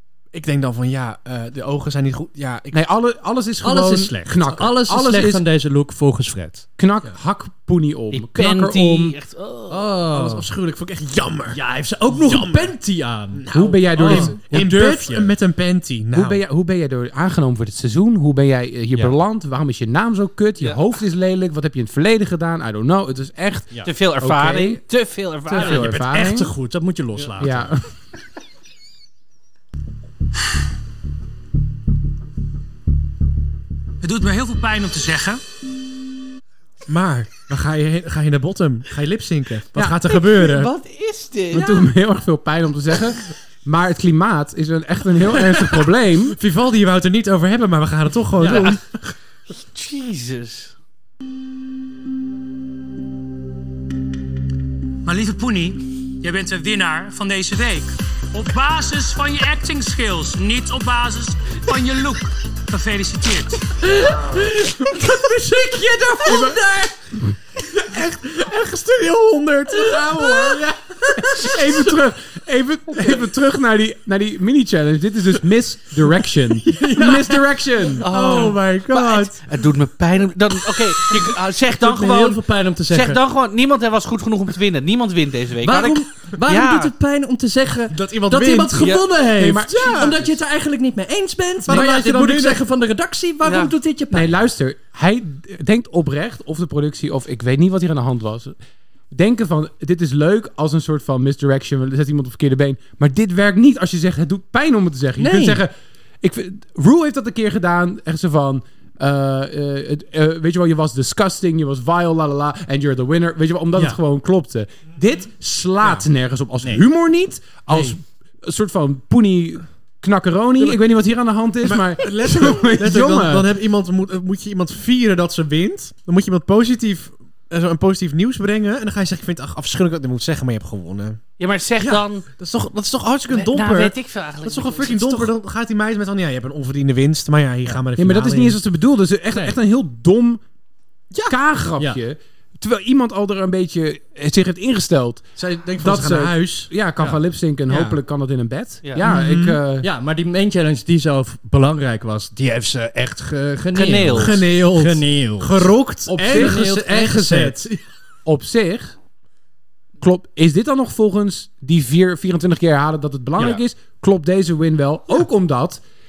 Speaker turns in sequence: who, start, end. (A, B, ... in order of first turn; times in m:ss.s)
0:00.3-0:02.9 A
0:02.7-0:05.4 B
0:03.6-0:06.6 C
0:06.8-0:09.1 B
0:08.1-0:09.9 D
0:09.7-0:10.5 C
0:09.9-0:11.6 A
0:11.5-0:15.2 C
0:12.1-0:12.8 A
0:13.3-0:16.4 A
0:13.5-0:15.3 B
0:16.1-0:24.8 B
0:23.8-0:25.9 D
0:25.5-0:26.5 B
0:25.5-0:27.7 C
0:27.4-0:27.8 B
0:34.0-0:35.4 E
0:36.9-0:40.7 A
0:40.1-0:41.9 D
0:41.5-0:46.4 B
0:46.4-0:49.0 A
0:48.4-0:48.7 C
0:48.4-0:48.8 D
0:49.5-0:50.7 D
0:55.0-1:03.8 E
1:04.3-1:06.6 C
1:05.2-1:06.8 A
1:06.2-1:06.6 B
1:07.6-1:11.9 A
1:11.2-1:18.1 B
1:16.6-1:19.4 A
1:18.0-1:26.9 D
1:21.8-1:23.2 C
1:25.6-1:34.3 C
1:27.9-1:29.0 A
1:28.8-1:29.0 D
1:29.4-1:30.2 B
1:29.7-1:30.2 A
1:31.6-1:32.6 A
1:33.4-1:33.7 D
1:34.1-1:38.5 B
1:39.1-2:03.5 B
1:45.2-1:45.6 C
2:01.6-2:11.2 A
2:11.4-2:12.2 D
2:11.8-2:18.6 A
2:13.3-2:15.3 D
2:18.0-2:20.4 B
2:21.3-2:25.2 B
2:25.4-2:26.7 A
2:25.8-2:29.9 B
2:27.7-2:28.0 A
2:29.0-2:29.6 A
2:29.8-2:37.6 C
2:33.7-2:34.4 D
2:34.1-2:37.8 A
2:36.1-2:36.6 B
2:38.2-2:38.9 B
2:40.0-2:45.8 B